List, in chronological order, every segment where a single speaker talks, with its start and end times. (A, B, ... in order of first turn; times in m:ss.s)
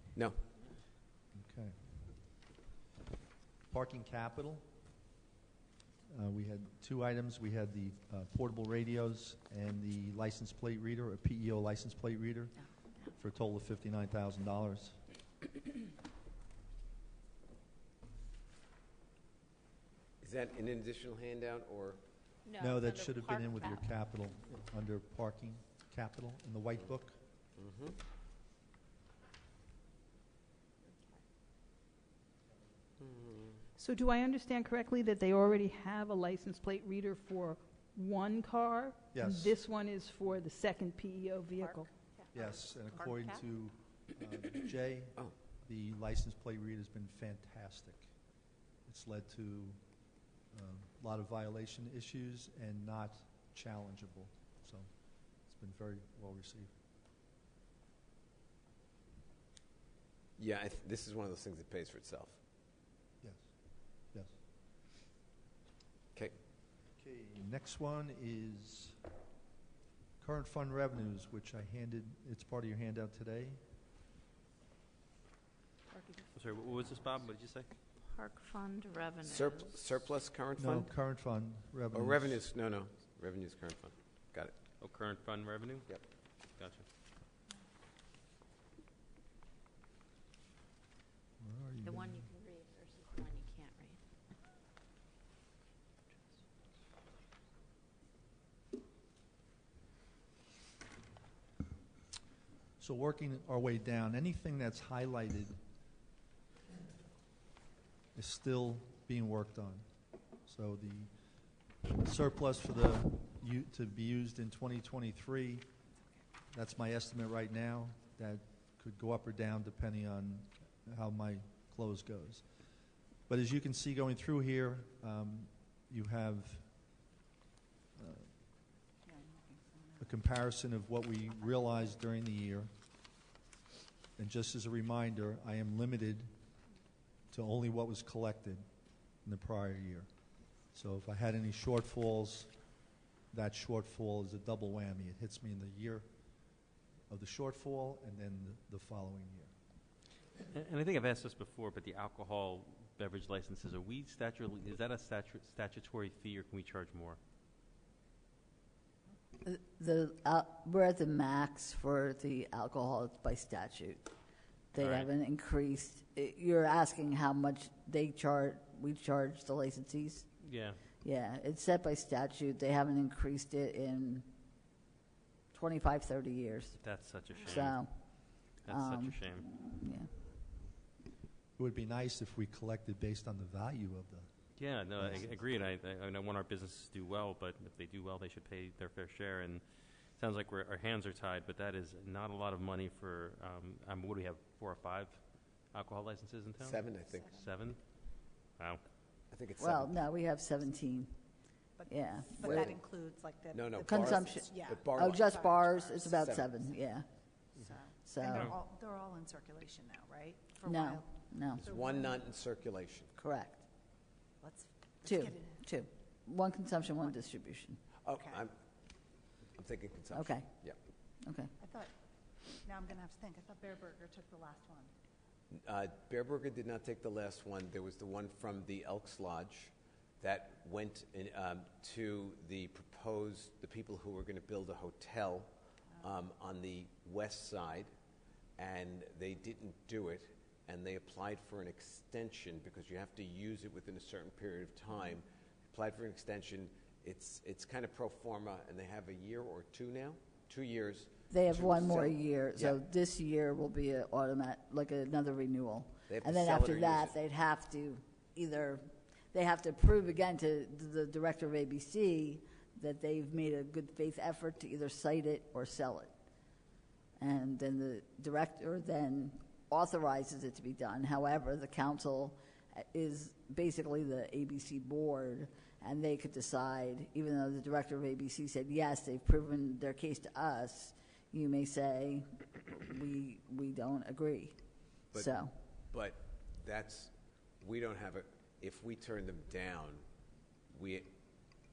0:01.3-0:01.8 A
0:03.7-0:04.6 A
0:06.1-0:12.6 A
0:13.1-0:15.0 A
0:20.2-0:22.0 B
0:22.4-0:23.9 C
0:22.6-0:27.2 A
0:27.6-0:28.0 B
0:30.8-0:31.2 C
0:33.0-0:33.6 B
0:33.8-0:41.9 D
0:39.1-0:39.6 A
0:42.3-0:48.1 A
0:42.4-0:43.4 E
0:48.9-0:49.8 A
0:50.5-0:54.9 A
0:55.5-0:56.7 A
1:00.4-1:02.4 B
1:07.0-1:09.0 A
1:10.2-1:13.6 A
1:15.9-1:16.3 C
1:16.3-1:17.7 F
1:18.1-1:19.8 C
1:19.2-1:20.9 B
1:20.6-1:22.4 A
1:21.9-1:24.6 B
1:24.8-1:25.9 F
1:26.6-1:26.8 F
1:31.4-1:32.3 A
1:31.8-1:34.0 C
1:42.8-1:45.6 A
1:48.1-1:49.8 A
1:50.4-1:51.1 A
1:52.0-1:55.6 A
1:56.5-2:02.4 A
2:03.3-2:06.6 A
2:08.0-2:08.3 A
2:09.0-2:10.1 E
2:10.0-2:12.7 A
2:14.2-2:16.3 A
2:17.3-2:18.6 A
2:19.2-2:20.1 A
2:20.7-2:22.5 A
2:23.3-2:26.1 A
2:27.1-2:29.5 A
2:30.5-2:37.2 F
2:39.4-2:44.1 G
2:44.7-2:50.3 G
2:44.8-2:45.1 F
2:50.4-2:50.8 F
2:51.0-2:54.3 G
2:55.5-2:56.8 G
2:56.8-2:57.8 F
2:57.4-3:00.1 G
2:58.6-2:59.5 F
3:01.6-3:04.3 A
3:04.6-3:17.8 F
3:05.0-3:05.4 A
3:16.6-3:17.3 B
3:18.5-3:18.8 F
3:19.3-3:19.9 B
3:19.6-3:21.2 G
3:21.9-3:22.6 G
3:22.0-3:26.1 E
3:22.4-3:22.8 B
3:23.5-3:25.2 B
3:23.8-3:27.1 G
3:26.1-3:26.5 B
3:27.6-3:31.0 E
3:28.0-3:28.5 G
3:30.6-3:31.7 G
3:31.6-3:33.1 B
3:31.7-3:32.1 E
3:33.2-3:33.6 G
3:34.4-3:35.4 E
3:35.0-3:37.8 G
3:38.0-3:38.5 B
3:39.6-3:40.8 B
3:40.1-3:40.5 G
3:41.2-3:41.5 G
3:42.6-3:44.9 E
3:45.5-3:57.9 B
3:58.6-4:12.8 B
4:11.3-4:26.1 G
4:16.1-4:17.1 B
4:27.2-4:45.5 G
4:45.9-4:50.0 B
4:50.7-4:51.1 B